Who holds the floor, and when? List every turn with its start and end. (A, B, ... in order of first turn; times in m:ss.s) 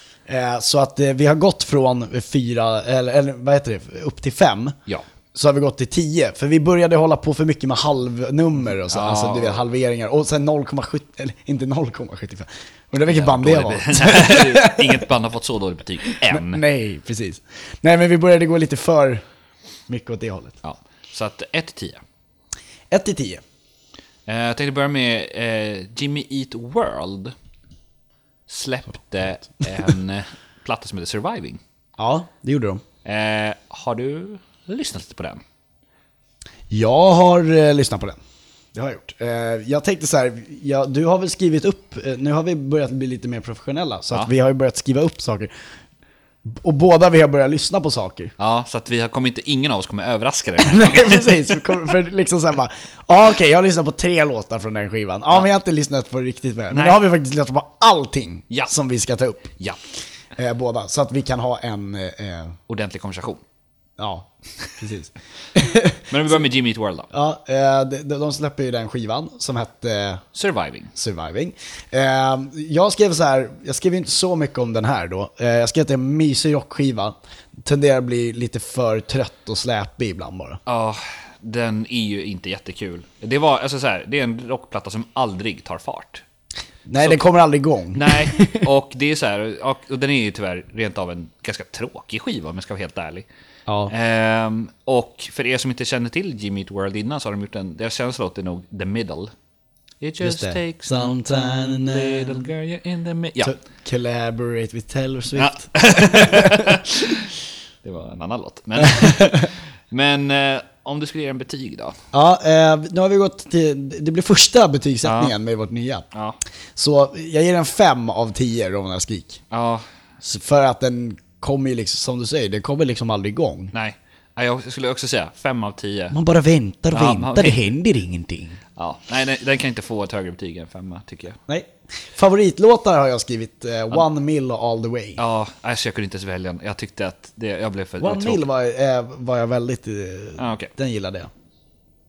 0:00.3-0:04.8 A
0:05.3-0:15.0 A
0:08.9-0:09.6 B
0:13.1-0:16.6 B
0:16.1-0:19.2 A
0:19.9-0:20.6 A
0:20.6-0:22.0 B
0:22.9-0:23.4 A
0:24.3-0:27.4 B
0:28.5-0:31.6 B
0:32.0-0:32.8 A
0:33.0-0:35.4 B
0:36.7-0:38.2 A
0:38.7-0:45.5 A
0:46.5-0:48.3 A
0:48.4-0:51.3 B
0:50.6-0:59.4 A
0:56.7-0:57.0 B
0:59.5-0:59.8 B
1:00.4-1:02.6 A
1:02.7-1:03.4 B
1:04.0-1:06.0 A
1:06.1-1:07.1 B
1:07.1-1:10.2 A
1:10.4-1:10.9 B
1:11.0-1:20.6 A
1:20.7-1:26.2 B
1:26.9-1:28.7 A
1:27.0-1:27.2 B
1:27.9-1:33.3 B
1:33.7-1:33.9 A
1:33.9-1:39.3 B
1:40.0-1:43.5 B
1:40.2-1:42.5 A
1:43.4-1:46.8 A
1:45.4-1:47.2 B
1:47.8-1:52.0 B
1:48.8-1:49.4 A
1:52.1-1:56.0 A
1:55.0-1:55.3 B
1:56.1-1:56.4 B
1:56.8-1:59.4 A
1:59.5-1:59.8 B
2:00.2-2:03.7 A
2:03.7-2:06.2 B
2:06.1-2:08.6 A
2:06.9-2:07.6 B
2:08.8-2:11.4 B
2:11.5-2:15.2 A
2:15.2-2:18.4 B
2:18.0-2:21.3 A
2:20.4-2:20.7 B